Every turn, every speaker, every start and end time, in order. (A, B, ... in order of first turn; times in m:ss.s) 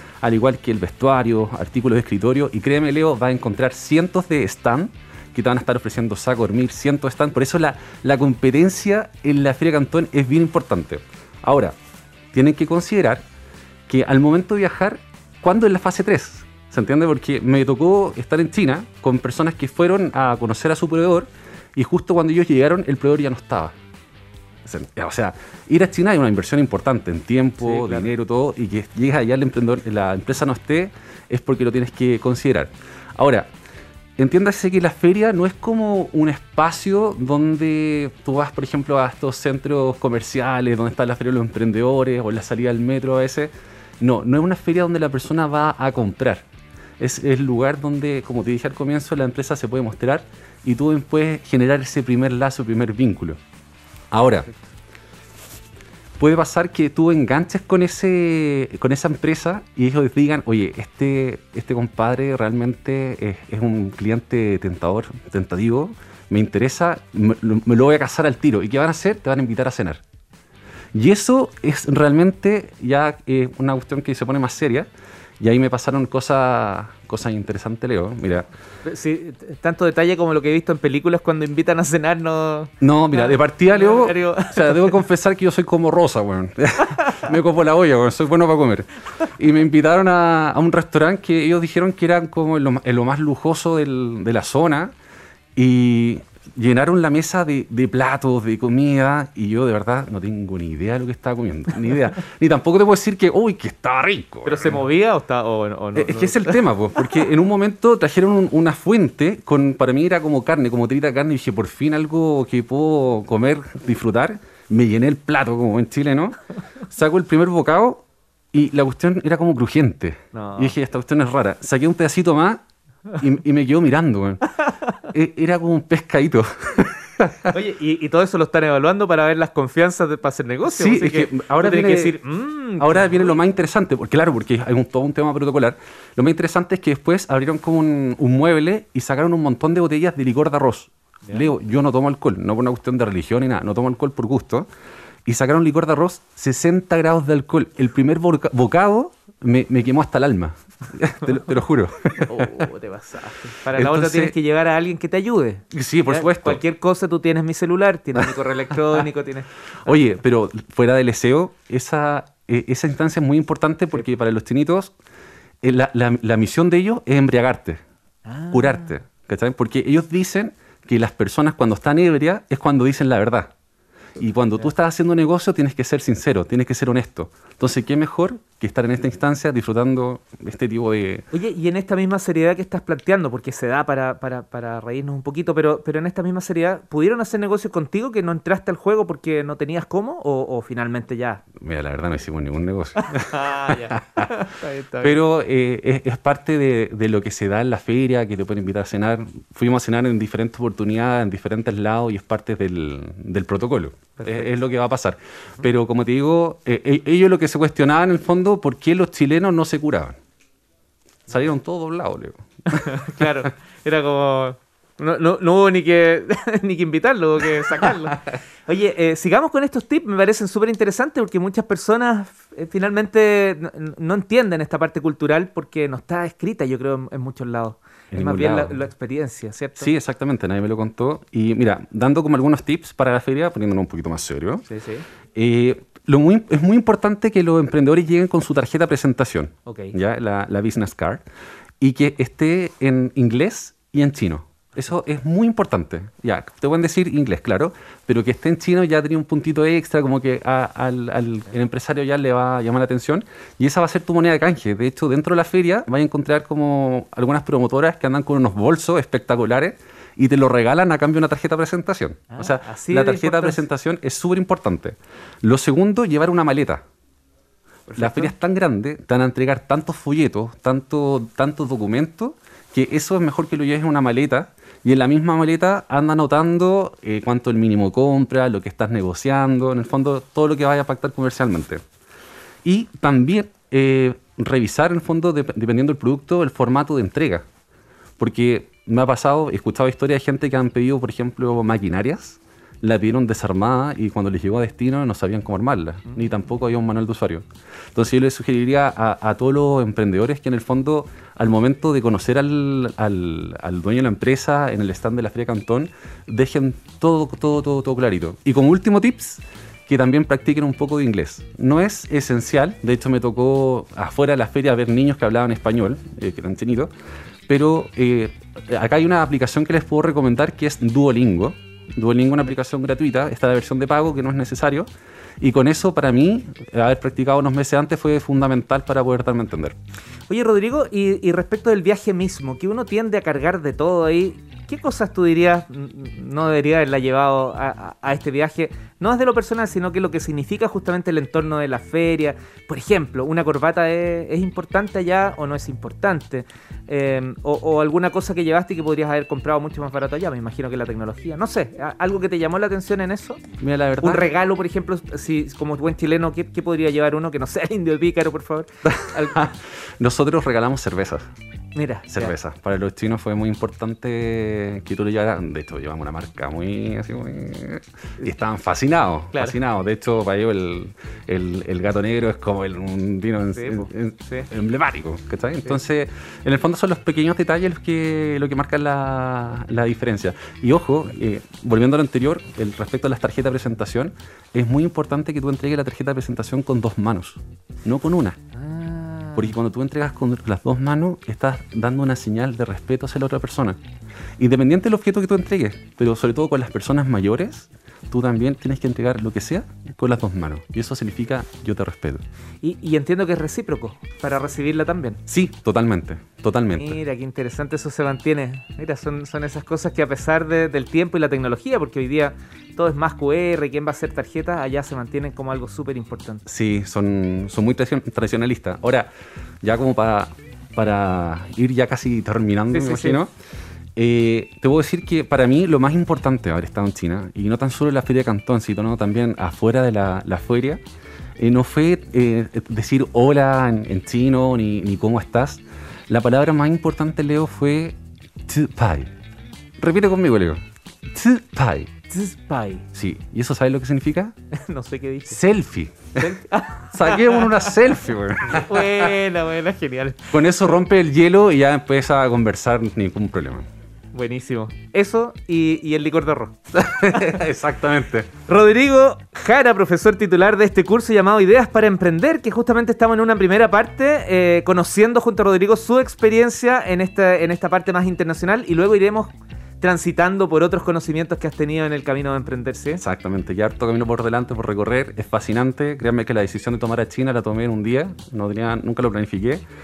0:00.2-0:11.8 A
0:12.3-0:13.2 A
0:13.9-0:23.7 A
0:24.6-0:33.5 A
0:27.6-0:28.1 B
0:34.2-0:46.4 A
0:47.0-0:53.4 A
0:54.1-0:54.5 A
0:56.2-1:10.0 A
1:10.9-1:14.9 A
1:15.4-1:18.5 A
1:18.8-1:25.0 B
1:22.8-1:34.9 A
1:35.6-1:44.8 A
1:44.4-1:47.2 B
1:46.0-2:04.5 A
2:00.3-2:00.8 B
2:05.0-2:07.5 A
2:07.5-2:13.4 B
2:10.6-2:12.2 A
2:12.8-2:24.7 A
2:25.3-2:32.6 A
2:32.2-2:39.9 B
2:33.7-2:34.4 A
2:35.7-2:36.6 A
2:39.8-2:44.9 A
2:45.6-2:47.8 A
2:48.3-2:48.9 B
2:48.5-2:53.5 A
2:54.2-3:01.3 A
3:01.3-3:11.4 B
3:11.6-3:14.3 A
3:13.0-3:15.2 B
3:15.0-3:30.2 A
3:24.2-3:24.5 B
3:31.3-3:33.1 A
3:32.7-3:49.9 B
3:48.1-3:48.8 A
3:49.8-3:54.7 A
3:54.7-3:55.1 B
3:55.3-4:01.2 A
3:59.7-4:00.0 B
4:01.8-4:26.8 A
4:22.3-4:23.6 B
4:27.9-4:28.3 B
4:28.0-4:41.8 A
4:42.6-4:47.4 A
4:48.2-5:16.9 A
5:17.5-5:24.9 A
5:25.4-5:29.8 A
5:30.3-5:53.4 B
5:53.6-5:54.3 A
5:54.0-5:59.4 B
5:58.8-6:01.2 A
6:01.8-6:02.4 B
6:02.1-6:28.4 A
6:13.6-6:14.5 B
6:28.6-6:29.5 B
6:29.4-6:33.8 A
6:34.4-6:42.2 A
6:42.6-6:45.2 B
6:45.3-6:47.0 A
6:46.8-6:56.4 B
6:56.5-6:59.1 A
6:59.6-7:03.3 A
7:02.7-7:03.2 B
7:04.0-7:10.8 A
7:11.4-7:19.1 A
7:19.8-7:21.9 A
7:22.1-7:22.8 B
7:22.9-7:24.3 A
7:24.5-7:25.4 B
7:25.3-7:26.3 A
7:26.2-7:27.8 B
7:26.9-7:29.0 A
7:28.5-7:30.4 B
7:30.3-7:33.7 A
7:34.1-7:36.6 B
7:36.7-7:38.3 A
7:38.5-7:53.0 B
7:53.0-7:59.6 A